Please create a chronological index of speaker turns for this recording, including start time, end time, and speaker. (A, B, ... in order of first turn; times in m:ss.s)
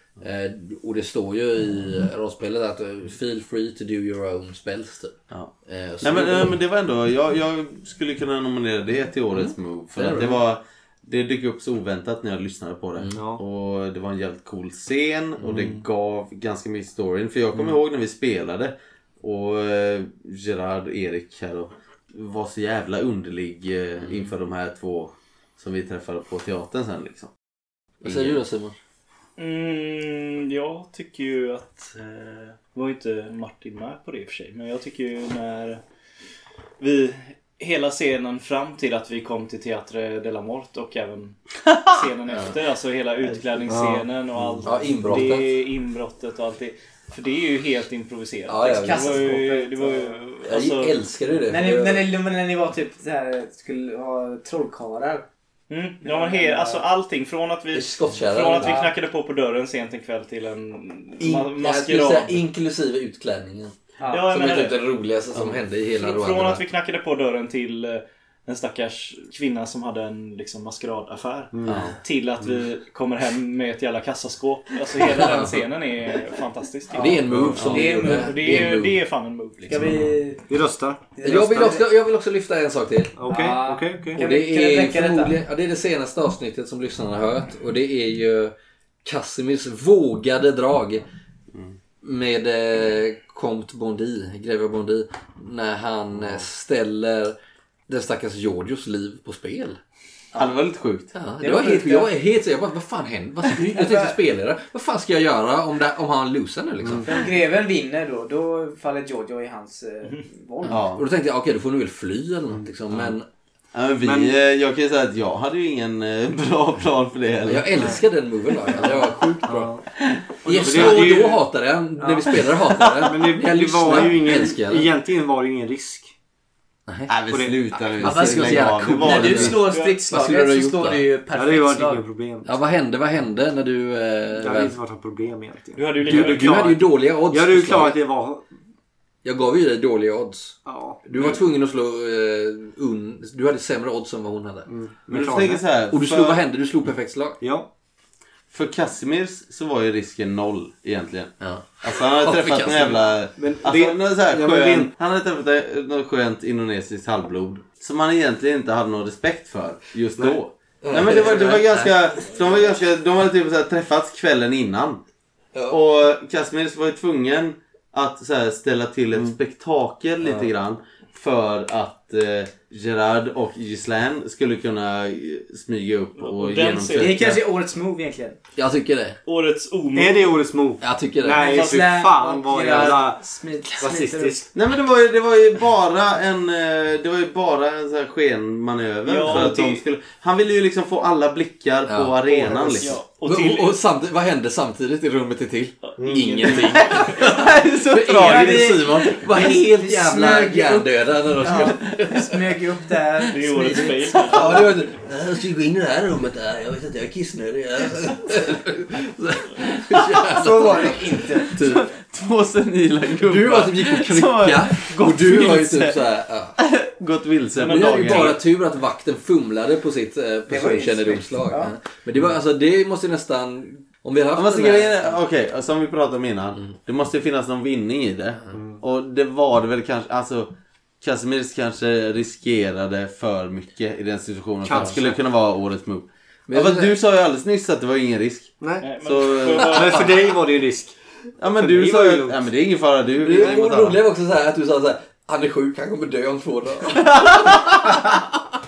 0:00.2-0:06.6 A
0:05.3-0:27.3 B
0:10.0-0:10.4 A
0:13.0-0:13.2 A
0:13.1-0:13.4 C
0:15.4-0:15.7 A
0:28.0-0:28.8 A
0:28.0-0:28.4 B
0:29.4-0:35.8 D
0:36.8-0:51.0 D
0:43.7-0:44.0 C
0:44.6-0:45.5 A
0:48.5-0:49.3 A
0:48.6-0:50.2 E
0:50.4-0:52.1 A
0:51.5-0:55.2 E
0:55.7-1:02.4 D
0:56.0-0:56.8 E
0:57.7-0:58.8 A
0:58.6-0:58.9 E
1:01.2-1:03.8 A
1:04.0-1:04.3 E
1:04.1-1:04.8 D
1:04.3-1:06.6 A
1:06.0-1:20.0 D
1:11.5-1:11.8 C
1:11.6-1:12.0 B
1:15.2-1:15.5 A
1:16.9-1:18.6 E
1:16.9-1:19.0 A
1:17.3-1:17.6 C
1:17.5-1:17.8 B
1:19.7-1:20.4 E
1:20.5-1:21.0 C
1:21.2-1:21.9 E
1:21.2-1:23.2 A
1:23.2-1:24.2 C
1:23.3-1:25.4 E
1:24.2-1:31.0 A
1:32.0-1:37.4 A
1:36.1-1:36.4 B
1:37.9-1:39.8 A
1:40.4-1:41.1 B
1:41.1-1:47.2 A
1:41.4-1:42.1 E
1:43.5-1:44.2 E
1:47.0-1:50.8 E
1:50.7-1:51.0 B
1:50.7-1:53.3 A
1:53.7-1:58.0 B
1:54.0-1:54.4 C
1:57.5-1:59.7 A
1:59.4-1:59.8 C
2:00.4-2:04.9 A
2:00.4-2:00.9 D
2:00.5-2:01.0 E
2:00.6-2:01.4 C
2:02.0-2:02.4 E
2:03.0-2:06.1 C
2:06.9-2:07.1 A
2:07.1-2:09.6 B
2:07.3-2:07.6 C
2:08.0-2:12.0 E
2:08.0-2:11.0 A
2:09.5-2:10.0 D
2:11.3-2:12.5 C
2:12.4-2:14.8 A
2:14.4-2:18.4 C
2:15.8-2:16.7 D
2:16.0-2:18.0 A
2:19.2-2:24.7 A
2:20.6-2:21.0 C
2:24.7-2:25.6 C
2:25.1-2:26.4 B
2:25.9-2:27.4 A
2:27.4-2:27.7 C
2:28.5-2:45.0 B
2:31.4-2:33.1 A
2:33.4-2:34.9 C
2:40.8-2:42.2 A
2:45.7-2:57.4 B
2:56.2-2:57.2 D
2:56.9-2:58.4 E
2:58.6-2:59.2 A
2:59.2-3:00.4 D
2:59.9-3:03.2 C
3:00.8-3:01.5 A
3:01.4-3:04.5 E
3:01.4-3:01.9 D
3:02.7-3:03.0 D
3:03.8-3:04.4 C
3:04.5-3:13.0 B
3:09.0-3:09.8 D
3:11.9-3:22.6 A
3:12.3-3:12.9 C
3:12.7-3:13.8 D
3:15.9-3:17.4 D
3:16.0-3:16.5 C
3:17.0-3:19.1 B
3:18.2-3:24.6 E
3:23.3-3:31.9 A
3:23.3-3:24.8 D
3:30.3-3:31.6 E
3:31.6-3:36.0 B
3:33.2-3:36.6 A
3:36.6-3:38.4 B
3:37.6-3:38.3 D
3:37.6-3:45.2 A
3:40.5-3:41.8 E
3:44.3-3:58.5 B
3:48.5-3:48.8 C
3:54.6-3:55.2 C
3:56.5-3:56.9 A
3:58.6-3:58.9 C
3:58.8-4:00.2 D
3:59.0-4:00.1 B
3:59.6-4:00.9 C
4:01.4-4:04.0 B
4:01.5-4:02.5 C
4:03.2-4:08.2 A
4:03.3-4:03.7 C